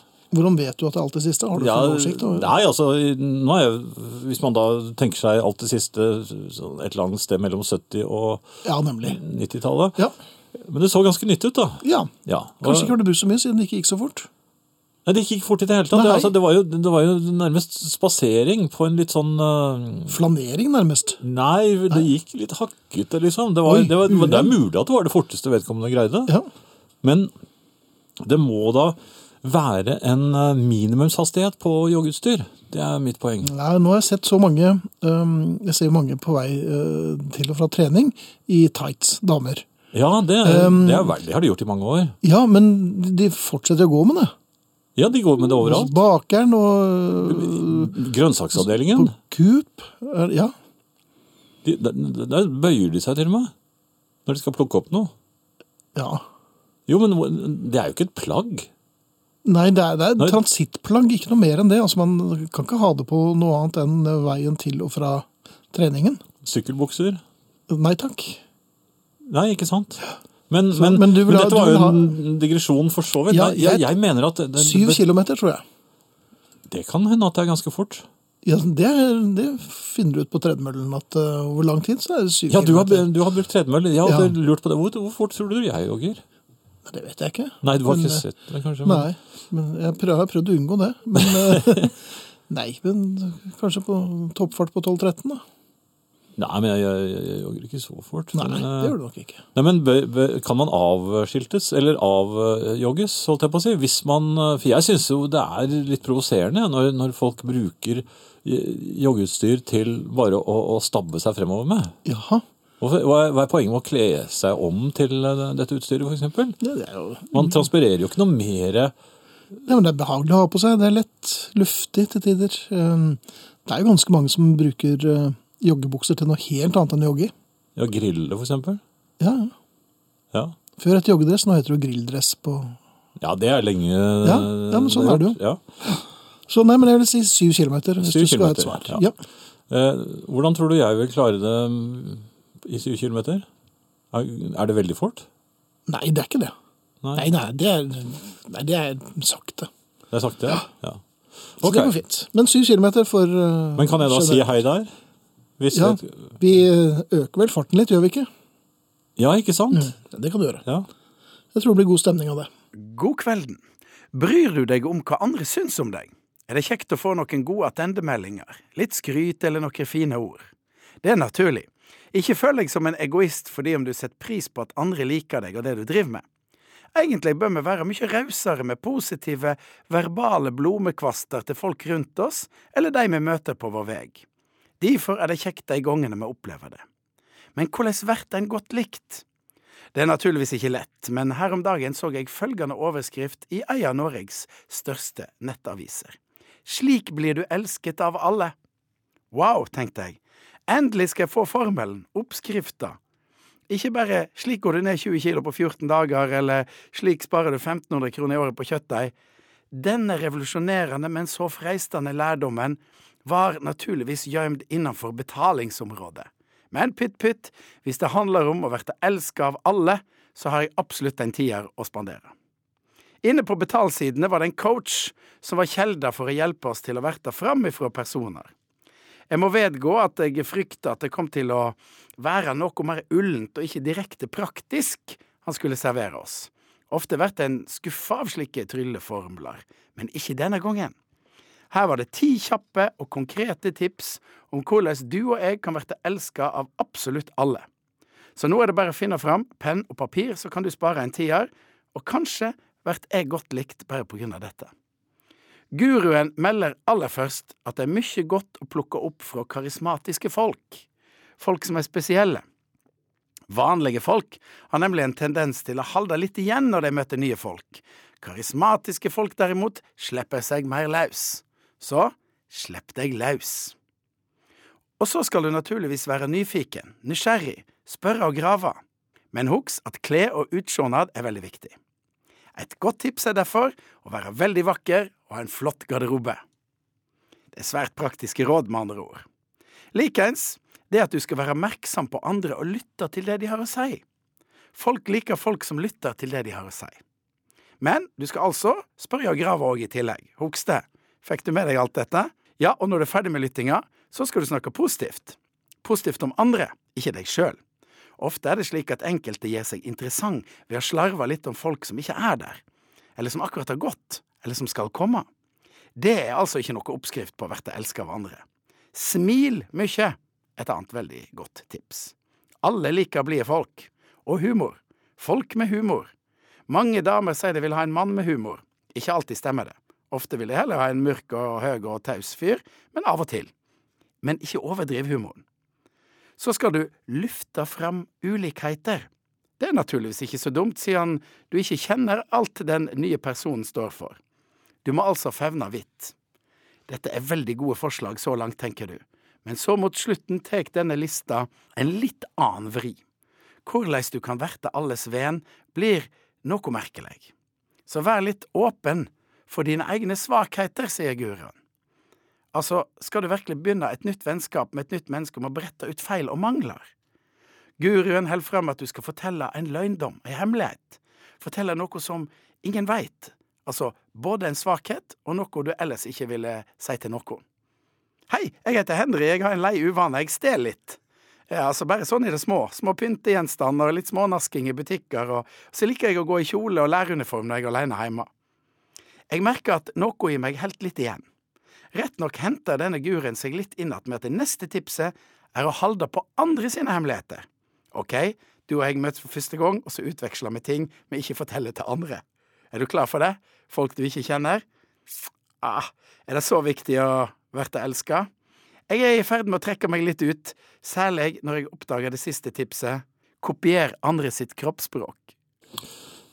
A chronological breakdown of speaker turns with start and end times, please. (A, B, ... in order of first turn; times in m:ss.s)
0:00.3-0:02.5 A
0:01.6-0:08.4 B
0:08.6-0:09.2 A
0:09.0-0:10.0 B
0:10.6-0:13.0 B
0:11.8-0:14.3 A
0:15.0-0:20.2 B
0:15.9-0:16.3 A
0:20.1-0:21.2 A
0:21.2-0:26.3 B
0:23.6-0:24.5 A
0:27.0-0:27.3 B
0:28.2-0:33.5 B
0:33.4-0:39.7 A
0:39.9-0:42.1 B
0:40.4-0:41.1 A
0:42.2-0:44.3 A
0:45.0-0:46.0 B
0:45.6-0:47.9 A
0:47.2-0:49.1 B
0:48.6-0:50.5 A
0:51.6-0:53.5 B
0:54.2-0:55.1 B
0:55.9-0:56.2 A
0:56.9-0:58.7 B
0:59.4-1:06.2 A
1:06.4-1:07.2 B
1:07.7-1:08.4 A
1:09.2-1:15.0 B
1:10.7-1:12.2 A
1:13.3-1:13.9 A
1:14.6-1:15.6 A
1:16.7-1:18.0 B
1:18.4-1:23.1 A
1:22.5-1:26.2 B
1:24.0-1:24.3 A
1:26.8-1:28.2 A
1:27.6-1:29.1 B
1:28.8-1:31.9 A
1:31.2-1:31.9 B
1:32.5-1:35.4 A
1:36.4-1:38.9 B
1:38.3-1:39.4 A
1:39.5-1:52.0 B
1:52.0-1:52.4 A
1:52.8-1:56.6 B
1:56.6-1:57.6 A
1:57.3-1:58.9 B
1:59.6-2:07.3 A
2:07.8-2:08.8 B
2:09.2-2:09.5 A
2:10.8-2:12.8 A
2:13.2-2:15.6 B
2:14.2-2:19.2 A
2:18.0-2:19.1 B
2:19.7-2:23.4 B
2:24.1-2:25.2 B
2:25.9-2:26.5 A
2:27.0-2:27.3 B
2:27.1-2:29.7 A
2:30.1-2:31.0 B
2:31.6-2:31.9 B
2:31.6-2:34.4 A
2:33.8-2:34.9 B
2:35.6-2:36.3 B
2:35.7-2:38.3 A
2:39.2-2:39.9 B
2:39.7-2:40.6 A
2:41.5-2:42.5 A
2:42.8-2:43.6 C
2:44.1-2:50.4 C
2:51.0-2:56.2 C
2:56.9-3:04.2 C
3:04.8-3:06.8 C
3:07.5-3:09.2 C
3:09.9-3:18.5 C
3:19.3-3:23.0 C
3:23.7-3:29.1 C
3:29.7-3:42.3 C
3:43.2-3:48.5 C
3:49.3-4:00.9 C
4:01.7-4:07.6 C
4:08.4-4:14.7 C
4:15.7-4:20.8 C
4:21.4-4:22.4 C
4:23.5-4:33.7 C
4:35.0-4:38.8 C
4:39.3-4:41.7 C
4:42.6-4:46.4 C
4:47.5-4:49.2 C
4:49.9-4:54.0 C
4:54.7-4:57.0 C
4:57.8-5:07.6 C
5:08.2-5:12.6 C
5:13.2-5:15.2 C
5:16.0-5:18.4 C
5:18.9-5:26.1 C
5:26.7-5:33.5 C
5:34.2-5:35.4 C
5:36.4-5:39.1 C
5:39.6-5:44.2 C
5:44.8-5:46.1 C
5:46.9-5:53.0 C
5:53.6-5:57.3 C
5:57.9-6:01.5 C
6:02.5-6:06.9 C
6:07.8-6:17.4 C
6:18.3-6:28.3 C
6:29.3-6:31.2 C
6:31.9-6:44.6 C
6:45.6-6:48.3 C
6:48.9-6:55.3 C